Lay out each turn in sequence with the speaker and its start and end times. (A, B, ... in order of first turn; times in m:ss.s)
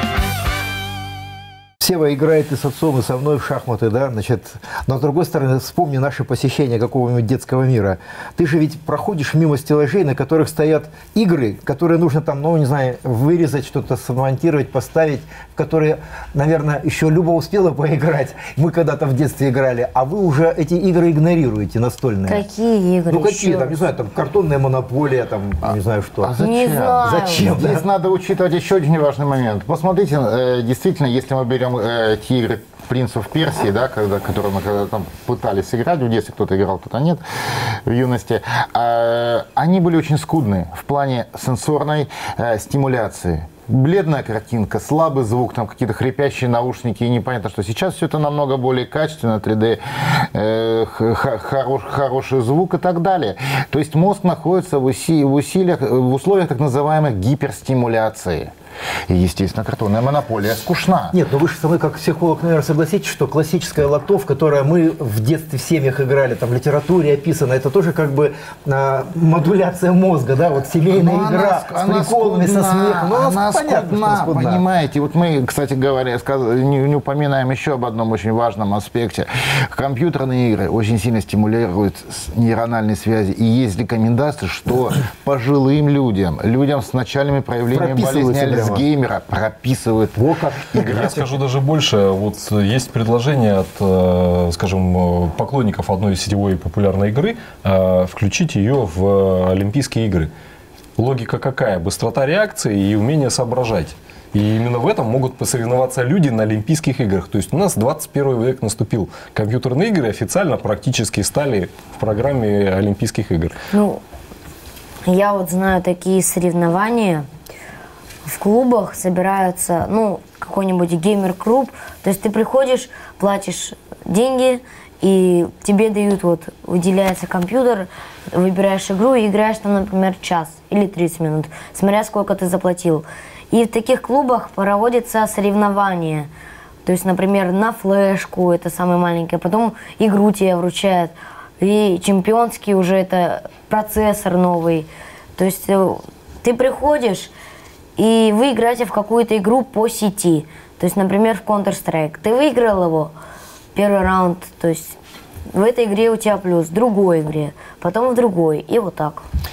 0:01.8-0:22.4 A
0:22.2-0:23.8 B
0:23.1-0:26.3 A
0:26.2-0:37.2 C
0:26.4-0:27.4 B
0:27.0-0:27.8 A
0:37.8-0:58.5 C
0:59.1-1:01.1 C
1:01.1-1:14.6 A
1:10.9-1:31.2 C
1:27.7-1:28.8 A
1:30.2-1:31.3 A
1:30.8-1:40.3 D
1:41.0-1:53.6 D
1:53.7-1:54.0 B
1:55.0-1:57.2 B
1:58.2-2:16.3 B
2:16.8-2:27.3 B
2:28.0-2:33.1 B
2:33.7-2:35.0 B
2:35.5-2:39.2 B